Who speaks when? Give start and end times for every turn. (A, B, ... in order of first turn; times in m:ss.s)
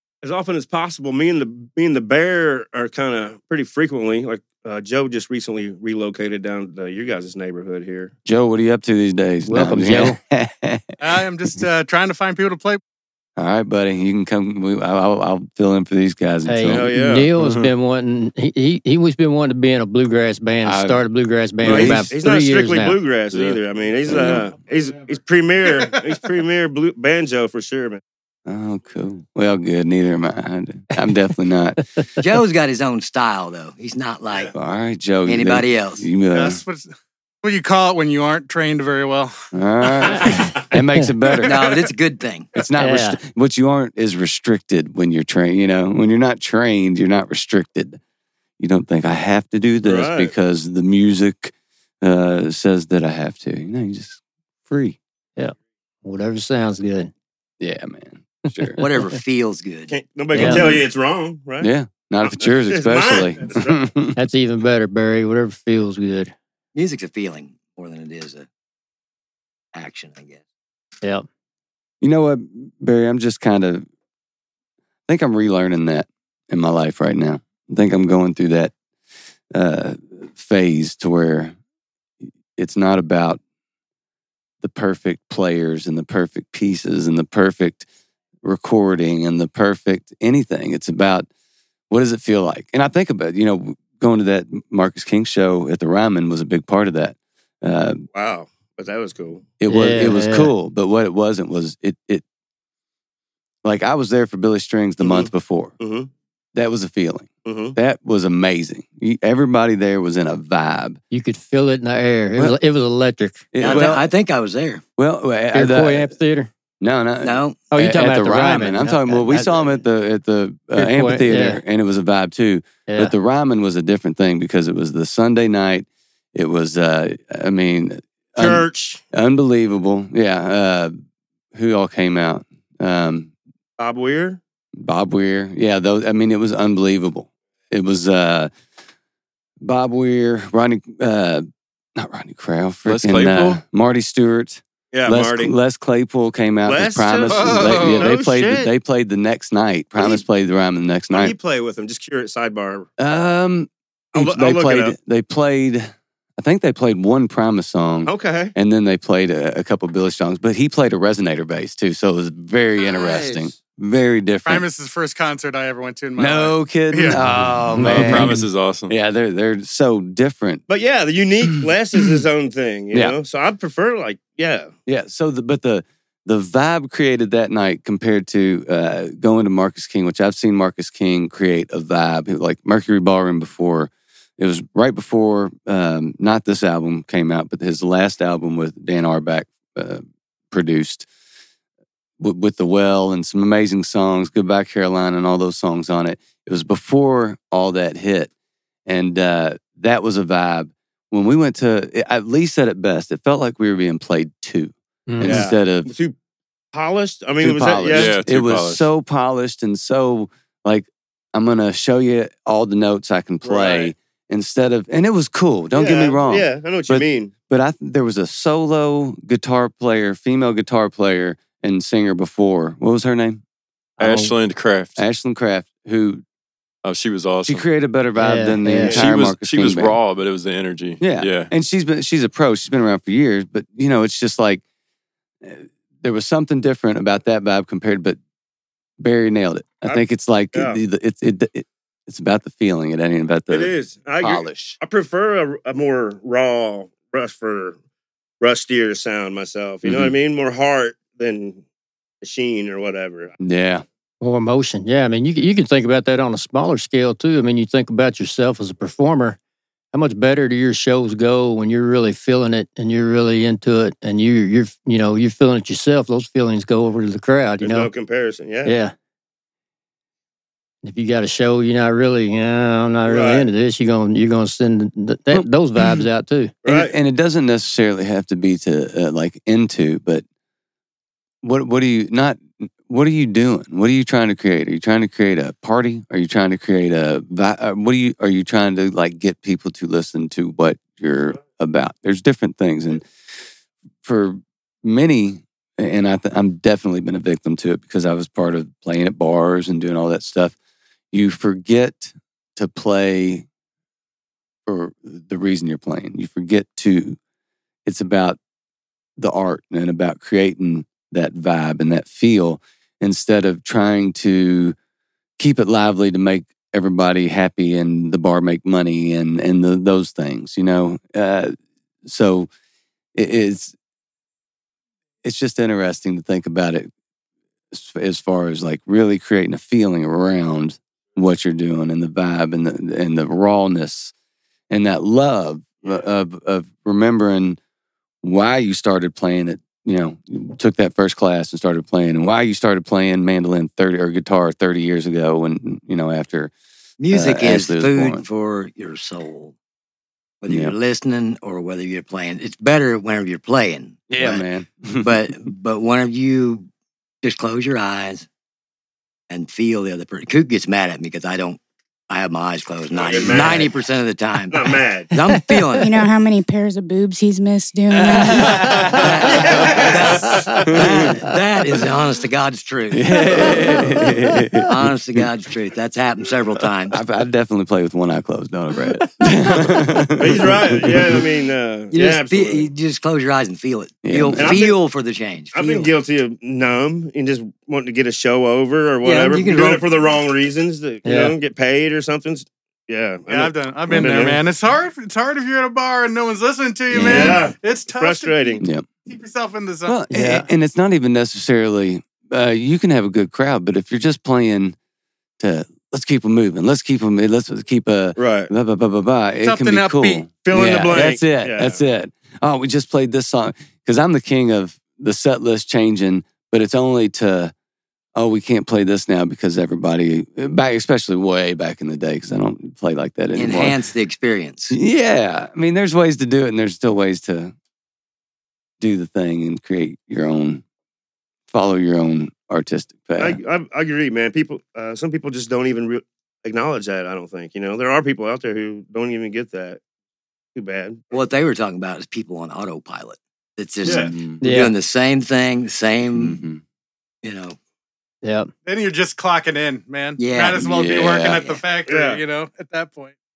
0:00.2-0:08.1 A
0:08.2-0:11.0 B
0:09.5-0:10.2 C
0:11.0-0:12.8 D
0:13.4-0:16.9 B
0:16.5-0:23.0 C
0:16.7-0:17.3 A
0:17.4-0:17.7 E
0:20.6-0:21.0 B
0:21.6-0:22.1 B
0:21.6-0:28.0 A
0:23.3-0:23.6 E
0:24.1-0:24.5 B
0:28.5-0:31.8 B
0:32.2-0:34.5 F
0:34.6-0:36.6 B
0:35.2-0:36.1 F
0:36.3-0:36.9 D
0:37.4-0:39.4 D
0:39.5-0:41.6 B
0:41.4-0:42.5 F
0:42.6-0:48.0 B
0:42.8-0:43.2 C
0:48.6-0:55.0 B
0:49.8-0:50.3 A
0:55.4-0:57.1 C
0:57.6-0:58.8 B
0:58.8-0:59.9 F
0:59.9-1:01.7 A
1:00.3-1:00.7 C
1:00.4-1:00.8 B
1:01.6-1:04.2 B
1:02.2-1:03.9 A
1:04.2-1:06.3 C
1:06.8-1:08.5 F
1:09.7-1:10.4 F
1:12.0-1:13.9 B
1:15.1-1:18.7 B
1:19.5-1:21.6 B
1:22.6-1:23.4 B
1:24.6-1:27.8 B
1:28.4-1:31.3 B
1:31.9-1:38.0 B
1:38.1-1:39.5 A
1:39.6-1:42.2 B
1:39.7-1:40.5 C
1:43.6-1:45.7 B
1:45.0-1:46.1 A
1:46.6-1:51.0 B
1:47.4-1:47.8 A
1:51.1-1:53.5 C
1:53.5-1:54.1 B
1:53.6-1:54.8 F
1:55.0-1:56.1 B
1:55.5-1:56.5 C
1:56.8-2:10.9 B
1:57.2-1:57.6 F
1:57.7-1:59.5 C
1:59.1-1:59.8 F
2:00.8-2:01.6 C
2:02.9-2:03.1 C
2:08.4-2:09.0 A
2:11.5-2:13.3 B
2:13.8-2:14.4 A
2:14.8-2:18.5 B
2:19.6-2:31.3 B
2:22.9-2:23.6 E
2:24.9-2:25.6 A
2:26.6-2:28.7 A
2:27.3-2:28.1 D
2:30.0-2:30.2 A
2:31.1-2:32.9 A
2:33.0-2:44.6 B
2:34.1-2:35.0 A
2:38.1-2:38.5 A
2:42.9-2:43.4 F
2:44.5-2:47.2 D
2:46.2-2:50.6 B
2:47.8-2:48.9 E
2:47.8-2:48.1 C
2:50.7-2:54.7 A
2:54.9-3:11.1 B
3:12.2-3:18.3 B
3:18.9-3:25.9 B
3:25.1-3:25.5 C
3:25.2-3:26.1 A
3:26.7-3:28.2 A
3:27.4-3:43.4 B
3:27.9-3:28.9 E
3:33.4-3:33.9 A
3:35.7-3:37.3 A
3:44.0-3:44.3 C
3:44.0-3:45.0 E
3:45.0-3:46.2 B
3:46.8-3:47.7 E
3:47.4-3:50.0 B
3:48.2-3:49.0 C
3:48.9-3:51.5 E
3:51.0-3:54.6 B
3:55.4-3:58.2 B
3:59.0-4:04.8 B
3:59.8-4:00.8 A
4:03.5-4:07.8 A
4:08.4-4:11.6 A
4:09.8-4:10.1 B
4:12.2-4:13.3 A
4:13.4-4:13.8 B
4:14.2-4:19.4 C
4:19.9-4:27.9 C
4:27.6-4:28.8 A
4:28.6-4:28.9 C
4:30.8-4:36.5 C
4:33.1-4:33.5 A
4:35.3-4:36.0 B
4:36.6-4:36.9 A
4:36.6-4:40.2 B
4:41.4-4:53.1 B
4:54.0-5:00.6 B
5:01.1-5:03.5 B
5:04.7-5:07.2 B
5:07.9-5:08.4 B
5:09.2-5:14.8 B
5:15.4-5:22.5 B
5:23.1-5:23.8 B
5:25.2-5:26.9 B
5:27.7-5:34.1 B
5:34.7-5:37.6 B
5:38.2-5:46.5 B
5:47.0-5:49.6 F
5:47.1-5:48.2 B
5:50.4-5:54.5 F
5:50.5-5:50.7 B
5:54.1-5:55.3 B
5:55.0-5:56.7 F
5:57.2-5:58.3 F
5:59.3-6:06.0 F
6:02.9-6:03.7 A
6:04.5-6:05.1 A
6:05.7-6:09.0 G
6:08.1-6:09.1 B
6:08.2-6:14.1 F
6:09.3-6:10.3 A
6:10.7-6:11.3 B
6:12.9-6:15.3 B
6:14.7-6:17.0 F
6:16.9-6:21.2 B
6:20.2-6:22.7 A
6:21.9-6:25.9 F
6:24.0-6:24.6 B
6:24.4-6:24.8 A
6:25.5-6:34.4 A
6:29.0-6:30.0 F
6:31.0-6:31.4 C
6:33.3-6:40.0 D
6:36.9-6:37.5 B
6:36.9-6:38.6 A
6:39.9-6:44.8 B
6:40.1-6:40.5 C
6:45.4-6:57.5 B
6:48.2-6:48.5 A
6:49.4-6:50.3 D
6:50.4-6:51.8 A
6:58.1-7:03.8 B
7:03.3-7:04.8 F
7:04.7-7:07.5 B
7:08.8-7:10.6 B
7:11.5-7:13.4 B
7:13.2-7:19.8 A
7:20.6-7:21.0 A
7:21.1-7:26.4 F
7:23.8-7:24.1 A
7:23.8-7:24.4 B
7:24.4-7:24.7 C
7:26.2-7:26.6 B
7:27.2-7:27.6 F
7:28.2-7:28.5 C
7:28.6-7:33.1 D
7:30.2-7:31.6 F
7:30.6-7:31.4 B
7:31.9-7:32.2 A